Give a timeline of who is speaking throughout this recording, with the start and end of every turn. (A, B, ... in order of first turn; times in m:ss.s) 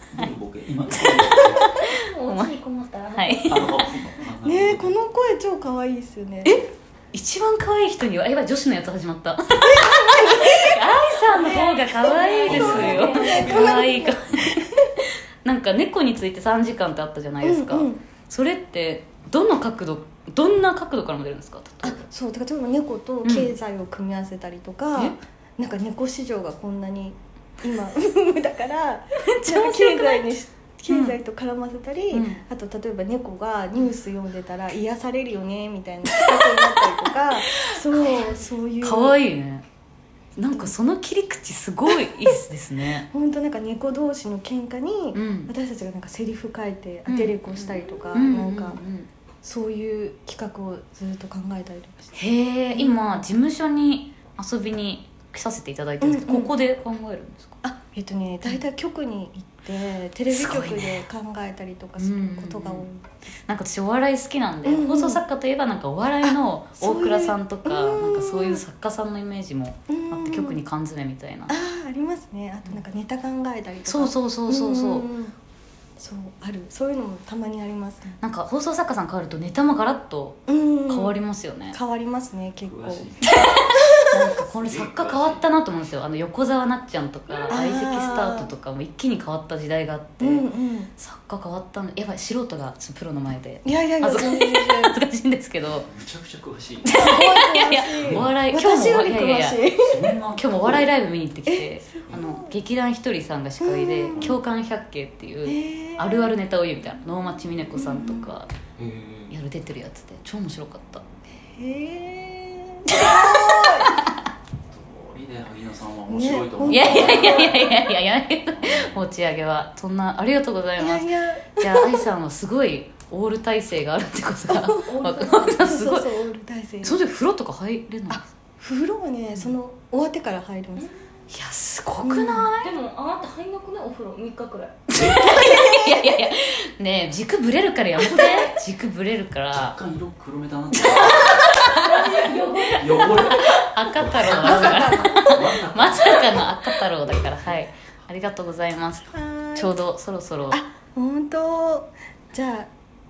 0:00.1-0:01.8 A
0:01.0-0:02.6 B
0:01.7-0:03.8 C
0:03.1-0:03.7 B
0:03.5-0:05.0 A
0:04.4-0:06.6 D
0:06.4-0:14.6 B
0:09.7-0:10.8 D
0:11.3-0:14.6 D
0:11.4-0:13.5 C
0:12.4-0:13.9 A
0:15.4-0:22.0 B
0:17.4-0:18.0 D
0:21.8-0:39.2 D
0:23.2-0:23.5 B
0:29.2-0:30.3 B
0:30.9-0:31.2 B
0:32.1-0:32.4 B
0:36.4-0:36.8 B
0:37.5-0:39.6 B
0:40.4-0:43.1 B
0:43.1-0:48.8 D
0:45.1-0:45.5 B
0:47.1-0:49.1 B
0:49.4-0:52.2 D
0:52.2-0:57.6 B
0:52.7-0:53.2 D
0:56.0-0:56.5 D
0:57.6-1:03.0 D
1:00.3-1:01.1 B
1:02.0-1:02.9 B
1:03.5-1:11.5 B
1:04.6-1:05.2 D
1:06.2-1:08.6 D
1:09.9-1:10.6 D
1:11.5-1:15.3 D
1:13.9-1:15.1 B
1:16.0-1:18.2 D
1:18.2-1:21.8 B
1:20.5-1:21.2 D
1:21.7-1:23.1 D
1:22.7-1:23.7 A
1:24.1-1:30.4 B
1:24.3-1:25.4 A
1:27.5-1:28.5 D
1:30.2-1:30.9 D
1:31.0-1:35.9 B
1:33.6-1:35.0 D
1:35.7-1:37.1 A
1:36.8-1:39.6 B
1:36.8-1:40.1 D
1:38.0-1:38.3 A
1:39.8-1:40.8 A
1:40.3-1:48.5 B
1:41.5-1:42.6 D
1:43.6-1:44.3 D
1:45.4-1:46.3 D
1:47.7-1:48.3 D
1:48.8-1:49.3 A
1:49.3-1:51.0 B
1:51.5-1:54.0 D
1:52.9-1:54.2 B
1:54.7-1:57.9 A
1:56.1-1:57.7 D
1:56.7-2:06.1 B
1:58.5-1:59.0 A
2:00.8-2:02.1 D
2:04.5-2:05.0 D
2:04.8-2:05.6 C
2:05.6-2:07.0 D
2:06.8-2:08.2 B
2:08.1-2:10.9 D
2:11.3-2:12.7 B
2:12.0-2:12.5 D
2:12.6-2:14.8 C
2:14.9-2:19.8 B
2:14.9-2:15.4 A
2:15.0-2:16.2 D
2:18.1-2:18.5 C
2:19.5-2:21.6 A
2:20.8-2:21.8 B
2:21.7-2:23.4 C
2:22.2-2:26.5 A
2:23.2-2:30.6 B
2:24.3-2:25.4 D
2:29.1-2:29.8 D
2:30.5-2:32.7 D